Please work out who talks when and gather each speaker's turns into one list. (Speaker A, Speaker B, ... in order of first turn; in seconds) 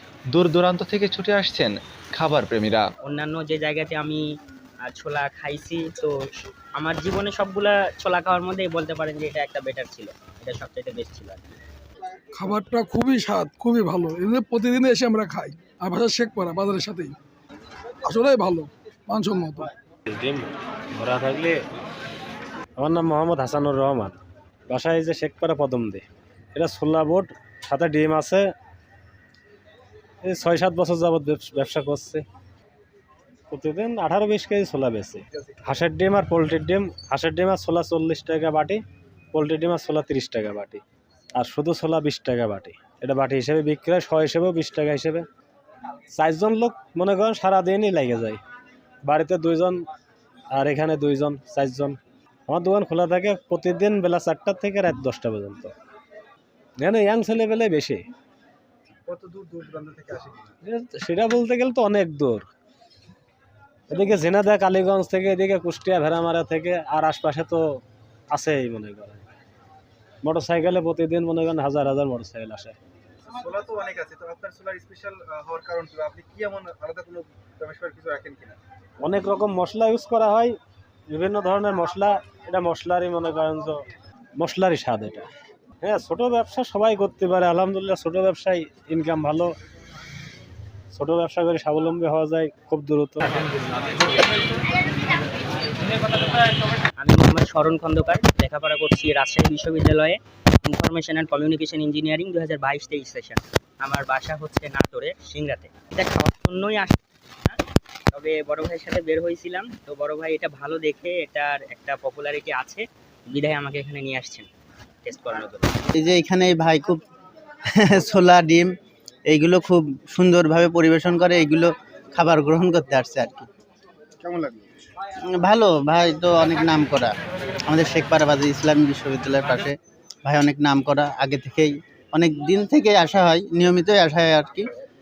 Speaker A: 0.3-2.8
Speaker B: 3.0-4.2, 4.8-6.1, 6.8-11.6, 97.0-107.6, 108.1-114.5, 115.0-115.8
Speaker C: 12.3-17.1, 18.0-19.7
Speaker D: 20.1-21.6, 22.8-28.5, 30.2-32.2, 33.5-38.8, 39.3-40.8, 41.4-45.2, 46.1-48.4, 49.0-49.8, 50.5-55.7, 56.8-58.0, 60.6-62.5, 63.9-67.8, 68.3-69.2, 70.2-72.8, 79.0-80.5, 81.1-83.8, 84.4-85.3, 85.8-89.5, 90.9-93.3
Speaker E: 59.1-60.5, 73.3-78.6, 124.2-124.7
Speaker F: 115.9-117.0, 117.8-118.7, 119.3-123.5, 125.3-127.1, 127.7-134.7